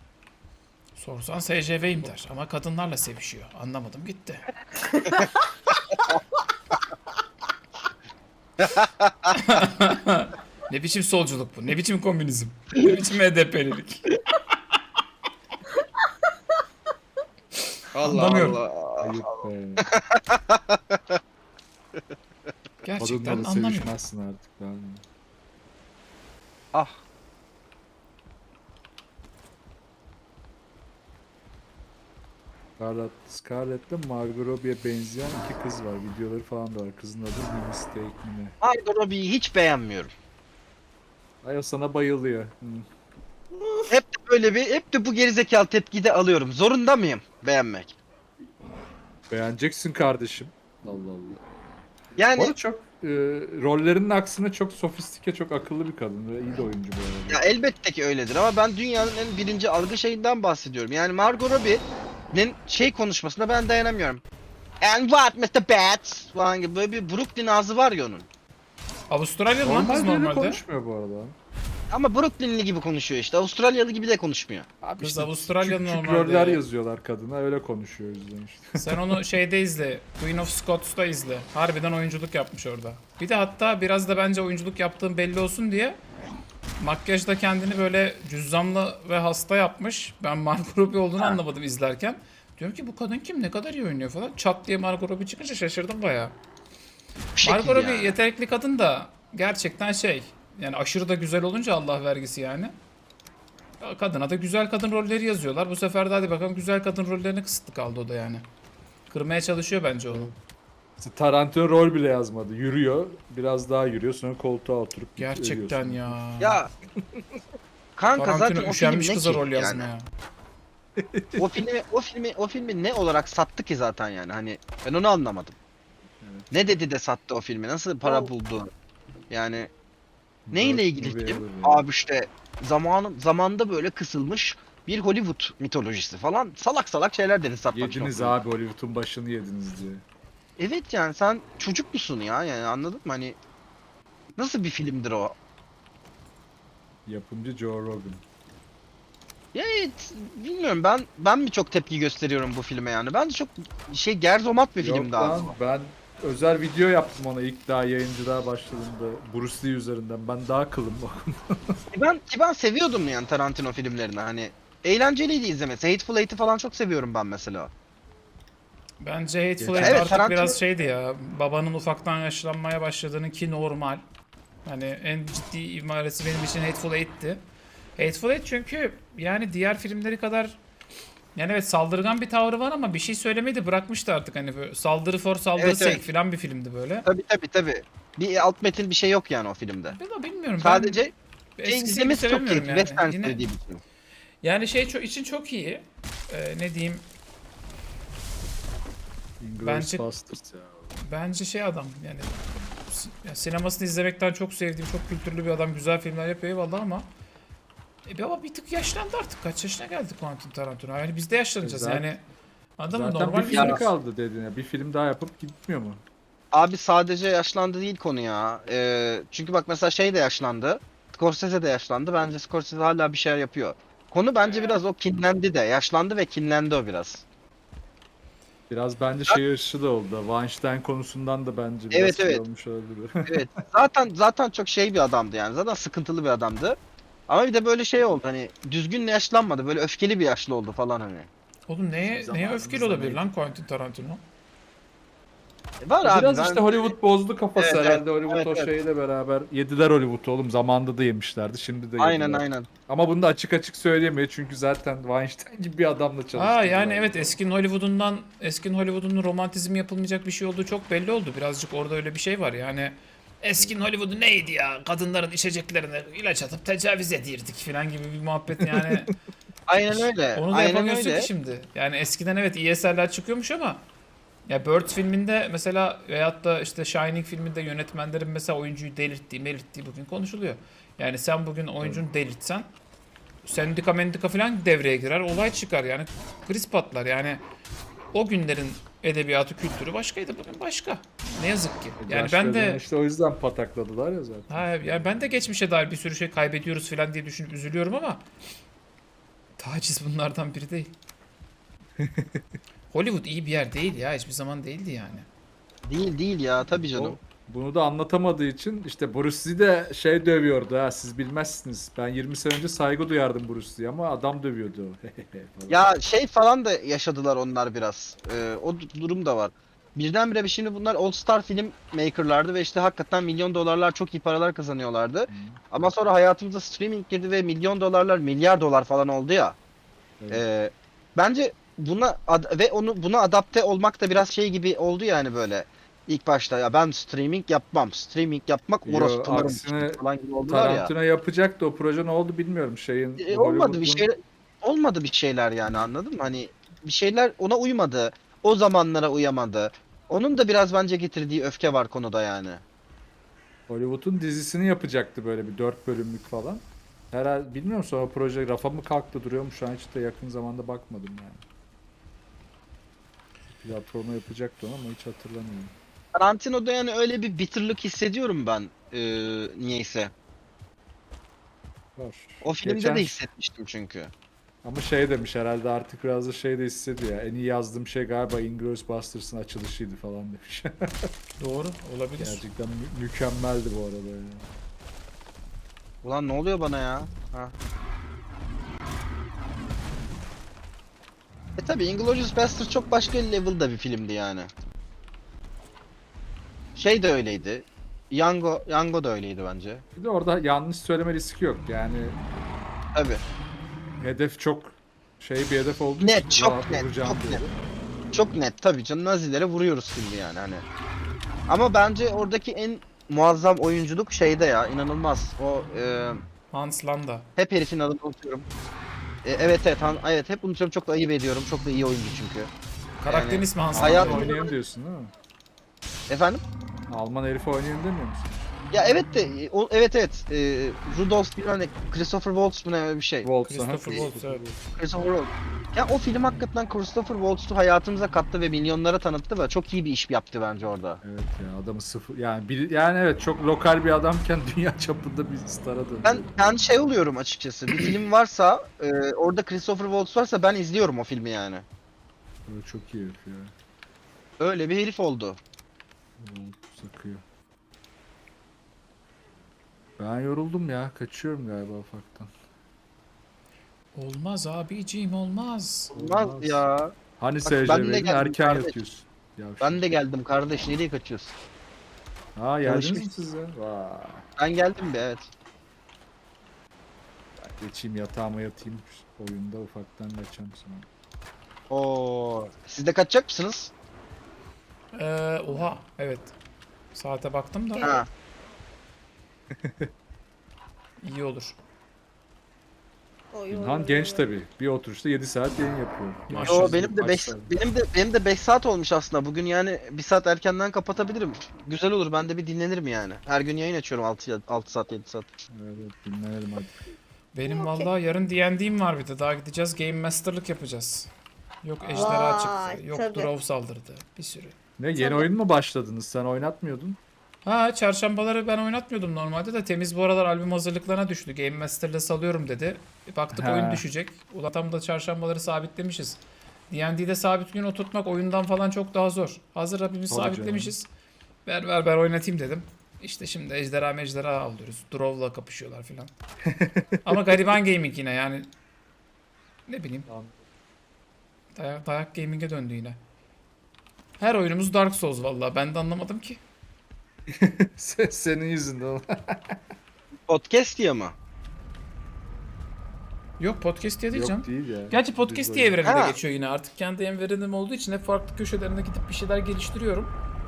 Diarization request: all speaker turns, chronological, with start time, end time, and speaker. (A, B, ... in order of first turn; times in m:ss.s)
0:01.0-0:04.5 A
0:08.6-0:09.4 B
0:09.4-0:14.2 A
0:17.9-0:21.2 B
0:18.0-0:18.6 A
0:19.0-0:19.9 C
0:22.8-0:23.9 A
0:23.0-0:25.0 C
0:26.7-0:27.0 B
0:32.8-0:38.6 C
0:38.6-0:40.1 B
0:41.4-0:42.9 C
0:43.5-0:43.9 D
0:43.9-0:48.0 B
0:49.3-0:51.4 C
0:52.2-0:52.5 B
0:52.4-0:57.4 C
0:57.3-1:04.2 B
1:04.8-1:08.3 B
1:09.1-1:10.6 A
1:09.6-1:11.4 C
1:11.9-1:14.7 B
1:14.8-1:19.0 C
1:15.0-1:16.6 A
1:18.8-1:26.0 A
1:26.8-1:36.3 A
1:37.4-1:38.2 B
1:37.4-1:42.7 A
1:43.8-1:48.4 A
1:49.1-1:50.3 A
1:51.0-1:56.2 C
1:55.2-1:56.6 A
1:56.4-1:56.7 B
1:58.0-1:59.9 B
1:58.2-2:00.1 A
2:01.0-2:01.6 C
2:01.4-2:05.6 B
2:06.2-2:06.5 C
2:06.5-2:08.7 B
2:08.0-2:08.3 D
2:09.3-2:09.7 B
2:10.5-2:11.8 C
2:10.5-2:18.3 B
2:17.7-2:20.0 C
2:20.6-2:23.4 B
2:24.4-2:25.3 B
2:27.1-2:28.2 C
2:29.5-2:35.5 B
2:34.8-2:41.8 C
2:41.9-2:47.7 B
2:49.0-2:54.0 A
2:49.6-2:50.0 C
2:49.8-2:50.6 B
2:54.6-2:57.4 A
2:58.0-3:00.6 A
3:01.4-3:07.1 A
3:05.6-3:06.0 B
3:07.0-3:10.0 B
3:10.0-3:11.0 A
3:10.6-3:11.1 B
3:11.6-3:13.4 A
3:11.6-3:13.8 B
3:14.4-3:17.1 A
3:19.4-3:21.0 C
3:19.6-3:20.0 A
3:21.0-3:27.1 A
3:28.1-3:32.2 A
3:31.6-3:32.1 C
3:32.8-3:33.9 A
3:32.9-3:36.0 C
3:33.5-3:33.8 B
3:36.5-3:47.2 B
3:48.7-3:53.6 C
3:51.9-3:52.4 B
3:53.3-3:56.8 B
3:57.3-4:01.3 B
4:01.7-4:04.2 A
4:02.1-4:03.3 C
4:05.8-4:06.9 B
4:06.0-4:17.4 C
4:07.6-4:08.7 B
4:12.0-4:12.7 B
4:16.4-4:29.1 A
4:28.6-4:29.1 C
4:29.7-4:31.3 B
4:29.9-4:33.8 A
4:34.5-4:42.7 A
4:43.4-4:47.4 A
4:48.1-4:52.8 A
4:52.0-4:55.5 C
4:54.5-4:58.2 A
4:59.6-5:00.9 A
5:02.0-5:02.4 C
5:02.9-5:05.3 A
5:05.9-5:07.2 B
5:06.9-5:15.8 C
5:15.7-5:29.6 B
5:25.3-5:25.6 C
5:30.3-5:40.9 B
5:38.8-5:44.1 C
5:43.2-5:52.6 B
5:53.7-6:01.4 C
6:03.5-6:05.7 C
6:06.2-6:10.1 B
6:12.0-6:13.2 C
6:12.4-6:14.1 B
6:14.6-6:21.1 C
6:21.4-6:22.4 A
6:22.2-6:24.5 C
6:26.0-6:27.5 B
6:31.6-6:34.5 B
6:36.8-6:39.8 B
6:40.0-6:42.2 C
6:43.0-6:43.2 B
6:44.0-6:47.6 C
6:46.0-6:47.4 B
6:48.1-6:50.6 B
6:51.5-6:56.2 B
6:56.5-6:57.3 A
6:57.4-6:58.5 B
6:59.2-7:02.5 B
7:03.0-7:04.5 A
7:03.1-7:04.5 B
7:03.7-7:05.1 C
7:06.1-7:06.4 B
7:06.9-7:08.5 C
7:08.7-7:13.3 B
7:13.2-7:14.6 C
7:13.5-7:14.5 A
7:14.8-7:21.0 B
7:21.0-7:26.6 C
7:26.0-7:31.6 B
7:32.5-7:33.5 C
7:34.4-7:35.4 B
7:36.2-7:37.2 C
7:40.0-7:42.3 C
7:44.0-7:45.9 A
7:45.9-7:46.6 C
7:45.9-7:46.9 B
7:47.2-7:49.9 C
7:47.4-7:48.8 B
7:49.6-7:51.4 B
7:52.4-7:54.3 C
7:52.6-7:53.1 B
7:54.4-7:55.3 B
7:57.4-8:00.9 C
8:01.7-8:03.7 B
8:04.9-8:06.3 A
8:07.0-8:07.9 A
8:07.8-8:08.0 D
8:07.8-8:08.1 B
8:09.5-8:09.9 C
8:11.0-8:11.6 A
8:13.3-8:14.3 D
8:13.5-8:17.5 C
8:16.3-8:16.9 A
8:16.4-8:25.3 B
8:25.5-8:26.8 C
8:27.4-8:31.1 A
8:27.4-8:27.9 D
8:31.6-8:34.6 A
8:31.8-8:32.2 C
8:32.0-8:33.3 D
8:34.8-8:37.0 C
8:35.0-8:35.3 D
8:37.4-8:50.9 A
8:43.3-8:43.8 C
8:50.1-8:50.7 C
8:51.5-8:56.1 A
8:56.5-8:57.4 C
8:57.0-8:58.5 A
8:59.7-9:00.1 A
9:00.1-9:00.4 C
9:01.6-9:03.0 A
9:04.2-9:06.4 A
9:07.3-9:09.6 C
9:10.3-9:11.2 B
9:13.4-9:20.1 A
9:14.1-9:15.8 C
9:15.8-9:16.2 B